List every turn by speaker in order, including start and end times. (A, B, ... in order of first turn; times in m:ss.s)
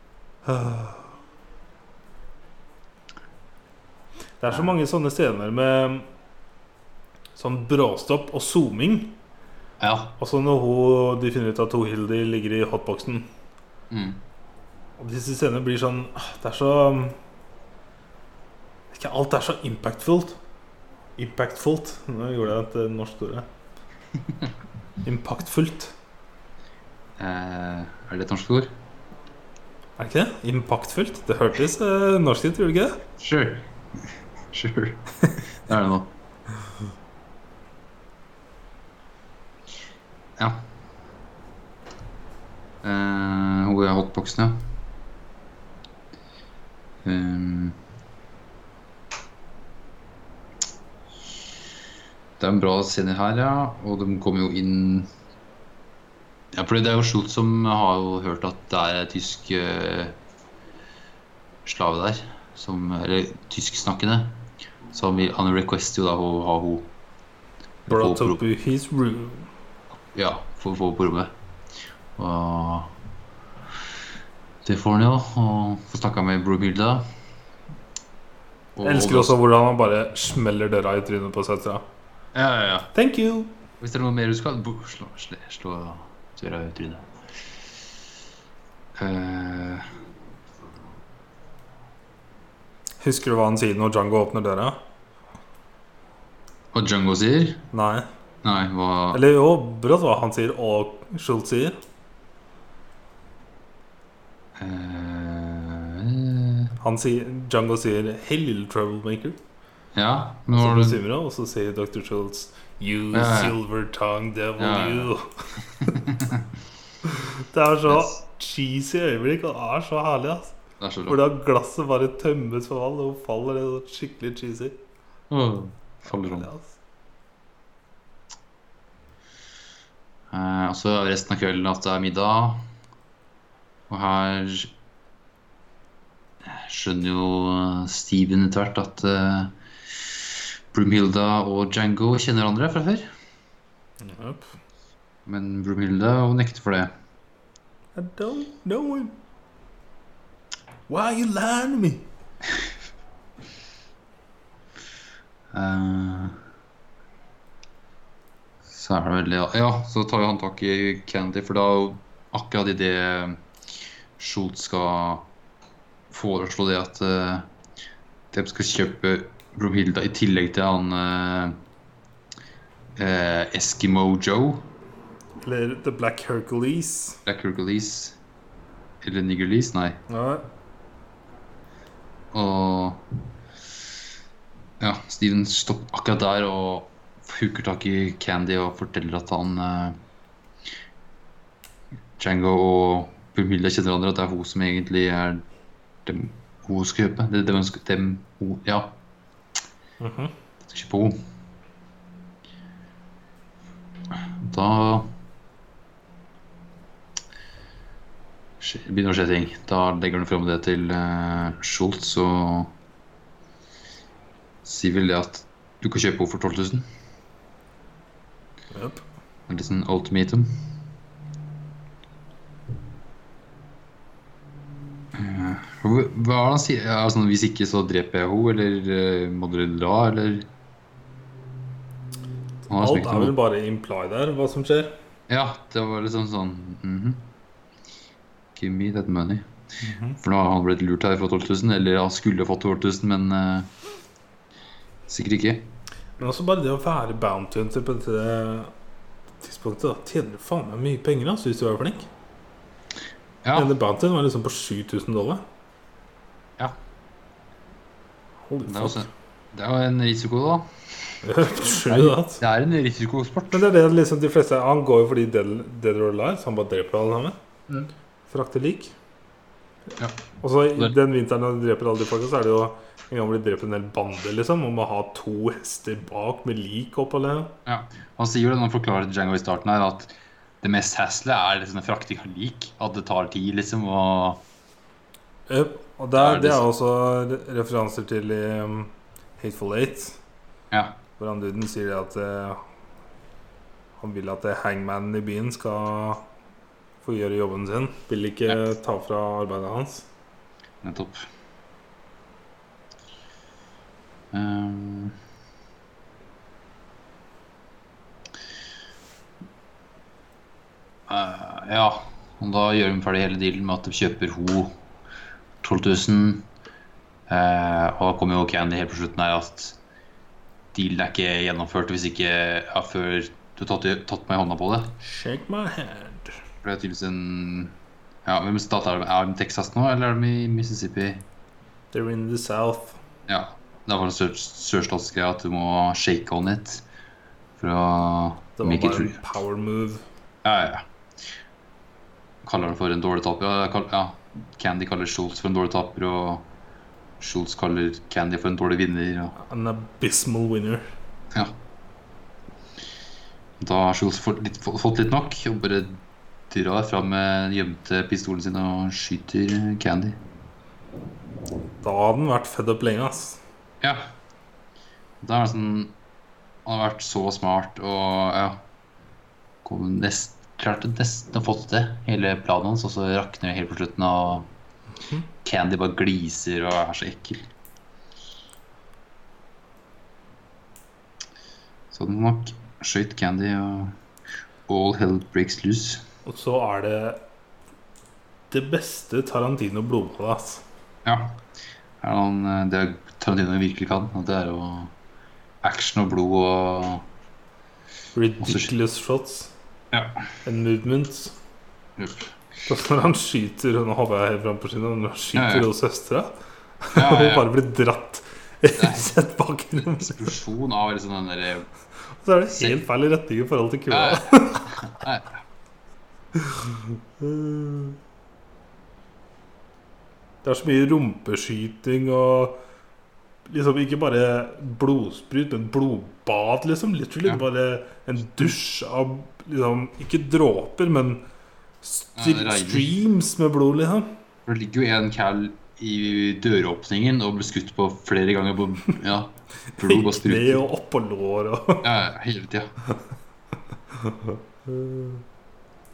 0:00.4-0:01.1 A
0:04.4-0:06.0 A
0:07.4-0:09.2 A
0:09.8-0:10.2 B
0:10.2-0:13.3 A
0:13.9-0:14.2 B
0:15.0-0:17.2 A
0:18.9-0:20.4 A
0:21.2-0:23.5 A
0:25.0-0:25.9 A
0:27.2-0:28.7 B
0:30.0-0:33.0 A
0:33.2-0:36.1 B
0:40.4-0:40.6 B
0:42.8-0:44.7 B
0:47.0-0:47.8 B
0:52.4-0:55.1 B
0:56.5-1:00.2 B
1:01.6-1:06.9 B
1:07.8-1:08.4 B
1:07.9-1:09.5 A
1:10.1-1:11.3 B
1:12.2-1:12.9 B
1:14.6-1:17.1 B
1:18.7-1:19.4 B
1:18.8-1:21.8 A
1:22.3-1:22.9 B
1:22.9-1:23.5 A
1:23.8-1:27.1 B
1:29.0-1:29.8 B
1:33.0-1:34.8 A
1:36.7-1:37.6 B
1:37.7-1:38.1 A
1:38.4-1:39.2 B
1:39.1-1:41.8 A
1:44.6-1:46.7 B
1:46.8-1:49.4 A
1:49.9-1:51.0 B
1:50.5-1:56.0 A
1:53.1-1:53.6 B
1:54.6-1:55.1 B
1:55.8-1:56.5 B
1:57.0-2:00.5 A
1:57.9-1:58.1 B
2:00.8-2:01.2 B
2:01.1-2:04.8 A
2:05.3-2:06.5 B
2:06.1-2:06.7 A
2:10.3-2:12.7 B
2:13.9-2:14.7 B
2:16.4-2:23.1 B
2:24.0-2:24.5 A
2:25.2-2:26.9 B
2:28.0-2:29.1 A
2:30.9-2:32.1 A
2:35.5-2:36.4 B
2:38.7-2:43.4 B
2:44.2-2:45.3 B
2:46.1-2:47.5 B
2:48.3-2:51.6 B
2:53.0-2:54.7 B
2:55.4-2:57.2 A
2:57.2-2:58.2 B
2:59.0-3:00.0 B
3:00.1-3:00.4 A
3:02.3-3:03.0 B
3:04.8-3:10.0 B
3:12.2-3:15.4 B
3:16.0-3:19.0 B
3:20.0-3:20.3 A
3:20.6-3:21.2 B
3:24.1-3:25.1 B
3:28.6-3:32.7 B
3:34.6-3:36.8 B
3:38.7-3:39.0 A
3:39.5-3:40.6 B
3:45.1-3:50.5 B
3:52.7-3:53.3 B
3:52.7-3:54.9 A
3:55.3-3:57.3 B
3:58.5-3:59.5 B
3:59.8-4:00.2 A
4:00.2-4:03.7 B
4:05.1-4:05.7 B
4:06.2-4:08.7 A
4:09.4-4:12.1 A
4:13.4-4:13.7 B
4:13.5-4:15.4 A
4:18.5-4:19.1 A
4:18.6-4:23.6 B
4:21.2-4:22.4 A
4:23.5-4:27.4 A
4:28.3-4:28.9 A
4:30.0-4:30.2 B
4:30.4-4:37.5 A
4:37.6-4:44.4 B
4:45.5-4:50.2 A
4:46.2-4:46.6 B
4:50.7-4:51.0 B
4:51.2-4:52.6 A
4:54.0-4:56.2 A
4:57.0-5:00.1 A
5:00.8-5:01.2 B
5:04.3-5:05.2 B
5:11.1-5:14.7 B
5:15.6-5:16.5 B
5:17.3-5:19.8 B
5:20.7-5:25.0 B
5:25.0-5:26.4 A
5:26.6-5:31.2 B
5:31.9-5:33.0 A
5:33.3-5:36.8 B
5:37.6-5:39.2 B
5:38.6-5:40.0 A
5:40.4-5:40.8 B
5:42.4-5:46.5 B
5:47.2-5:49.3 B
5:49.4-5:50.8 A
5:53.6-6:00.2 B
6:01.8-6:03.4 A
6:03.8-6:04.1 B
6:05.2-6:05.9 B
6:06.6-6:08.6 B
6:09.6-6:14.5 B
6:15.4-6:17.5 B
6:21.9-6:24.0 B
6:24.7-6:26.0 B
6:26.2-6:27.2 A
6:28.5-6:30.6 A
6:31.0-6:31.4 B
6:32.0-6:34.9 B
6:35.6-6:37.0 B
6:38.1-6:39.5 A
6:38.4-6:38.7 B
6:39.9-6:40.3 B
6:40.4-6:41.3 A
6:42.0-6:42.3 B
6:42.7-6:50.4 A
6:45.3-6:45.7 B
6:46.9-6:47.5 B
6:48.7-6:49.2 B
6:49.8-6:51.7 B
6:52.2-6:54.8 A
6:52.5-6:52.8 B
6:53.9-6:55.4 B
6:56.4-6:58.0 A
7:00.4-7:02.6 A
7:03.5-7:11.2 A
7:11.8-7:14.1 A
7:12.2-7:12.9 B
7:14.4-7:20.6 B
7:19.8-7:21.8 A
7:21.8-7:22.7 B
7:24.0-7:25.2 A